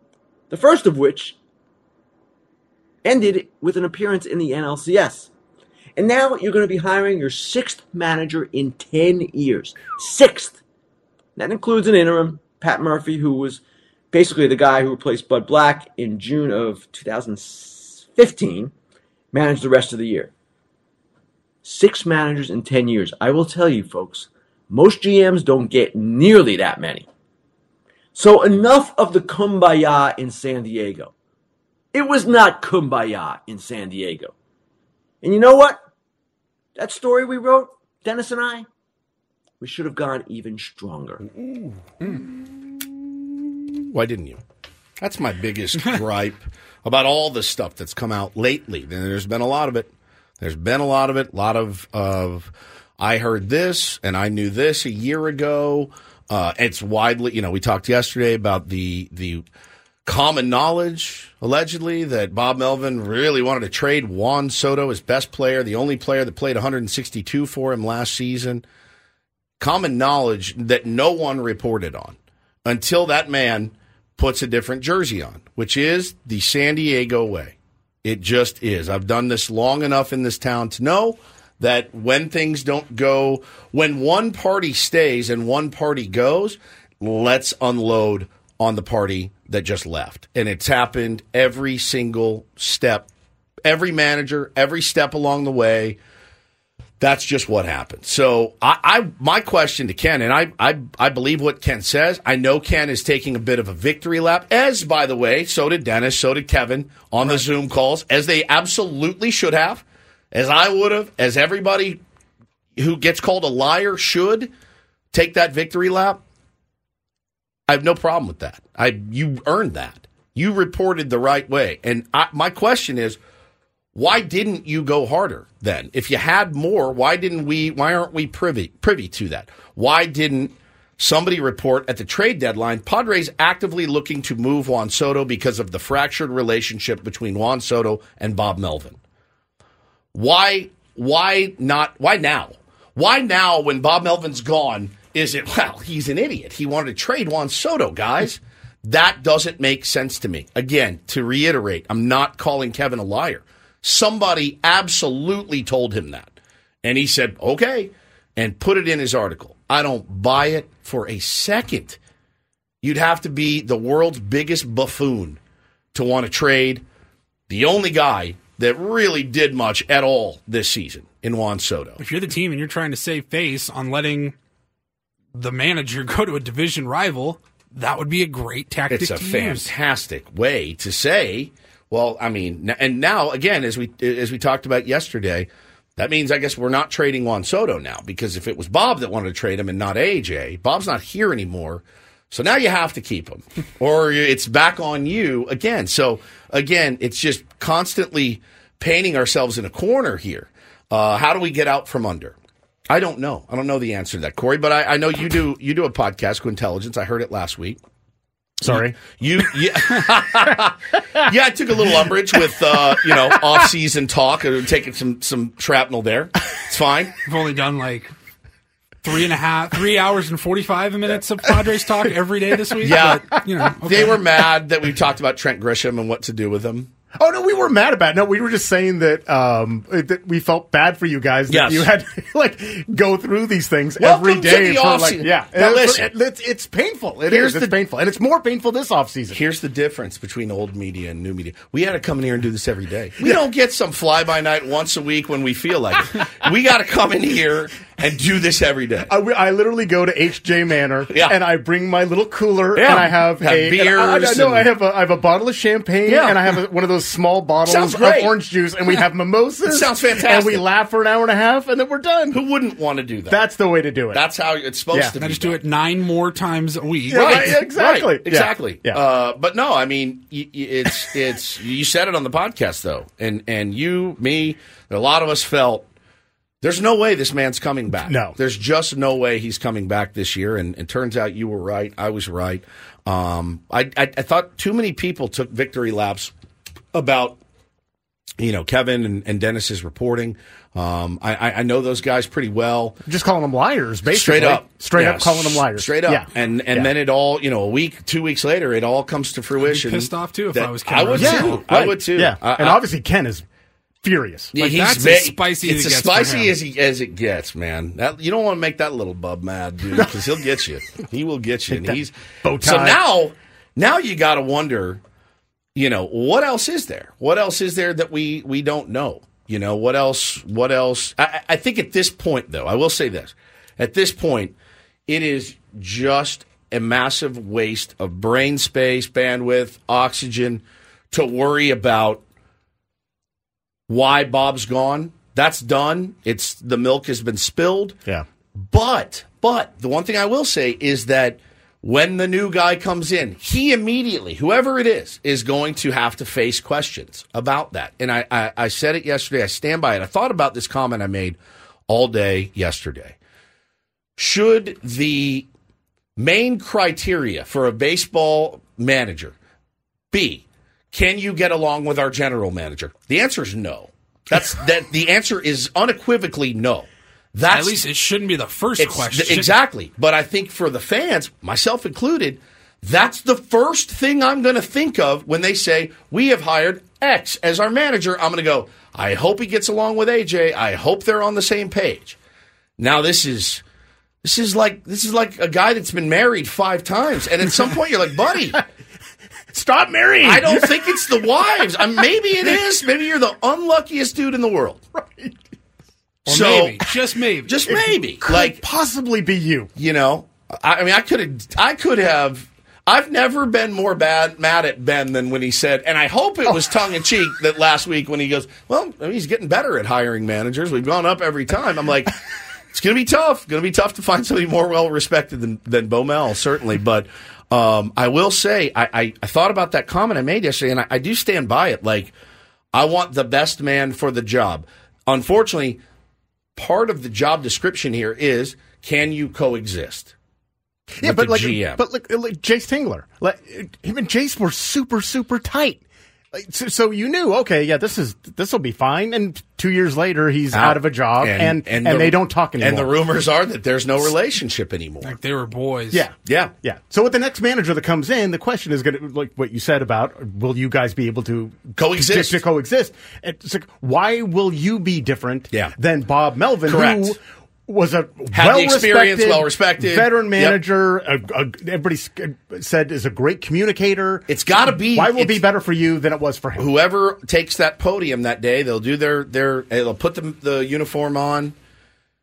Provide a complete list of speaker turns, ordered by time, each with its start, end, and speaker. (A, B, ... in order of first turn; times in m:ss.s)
0:00.5-0:01.4 A
0:03.0-0:05.3 A
0:06.0-0:10.6 A
0:11.4-0:13.6 A
0:14.1-0:18.7 A
0:19.3-0:20.3 A
0:21.6-0:27.1 A
0:28.1-0:31.1 A
0:31.9-0:34.3 A
0:35.2-0:35.8 A
0:36.8-0:38.7 A
0:39.6-0:41.2 A
0:43.9-0:44.4 B
0:45.0-0:59.4 B
1:00.0-1:08.6 B
1:09.6-1:33.1 B
1:33.6-1:36.0 B
1:37.0-1:52.0 B
1:52.8-1:54.5 B
1:55.1-1:56.2 B
1:57.7-2:03.2 B
2:03.9-2:19.0 B
2:20.1-2:42.0 B
2:42.8-2:45.4 B
2:45.9-2:46.8 B
2:47.5-2:52.0 B
2:52.0-2:54.3 C
2:55.3-2:59.7 C
2:58.9-3:22.4 B
3:22.9-3:27.8 B
3:28.6-3:29.0 D
3:28.7-3:37.1 B
3:37.2-3:38.1 C
3:39.0-3:44.2 C
3:42.8-3:46.9 B
3:47.2-3:59.4 D
3:51.5-3:51.9 B
3:54.0-3:56.1 B
3:57.3-3:57.7 B
3:59.3-4:09.1 B
4:09.1-4:22.4 D
4:11.1-4:11.4 B
4:12.7-4:14.7 B
4:16.0-4:16.6 B
4:17.6-4:18.4 B
4:19.6-4:20.6 B
4:22.3-4:23.4 B
4:23.3-4:24.2 D
4:24.1-4:25.6 B
4:25.2-4:27.6 C
4:27.1-4:29.0 D
4:27.1-4:35.9 B
4:36.6-4:46.3 B
4:38.0-4:38.4 D
4:46.9-4:47.4 B
4:48.4-4:53.0 B
4:53.0-4:56.9 D
4:54.1-5:02.8 B
4:59.6-5:01.7 C
5:01.1-5:03.4 D
5:04.0-5:04.6 D
5:04.5-5:15.0 B
5:04.6-5:06.5 C
5:11.7-5:13.0 D
5:15.7-5:24.5 B
5:25.1-5:32.2 B
5:33.9-5:38.0 B
5:38.6-5:53.2 B
5:54.2-5:55.5 B
5:56.2-5:59.4 B
6:00.1-6:07.8 B
6:07.5-6:09.5 C
6:08.8-6:22.2 B
6:22.8-6:23.6 B
6:24.2-6:28.6 B
6:29.5-6:31.0 D
6:30.2-6:34.8 B
6:36.2-6:36.9 B
6:36.3-6:37.5 C
6:37.5-6:38.6 B
6:37.6-6:39.7 D
6:39.8-6:52.1 B
6:52.7-7:02.1 B
7:02.7-7:05.8 B
7:06.6-7:10.1 B
7:11.0-7:22.9 D
7:11.0-7:11.8 B
7:20.5-7:25.1 B
7:25.0-7:26.1 C
7:25.9-7:46.7 D
7:26.2-7:26.5 B
7:31.8-7:32.4 B
7:36.7-7:37.1 B
7:38.3-7:40.6 B
7:44.3-7:45.4 B
7:46.6-7:51.5 B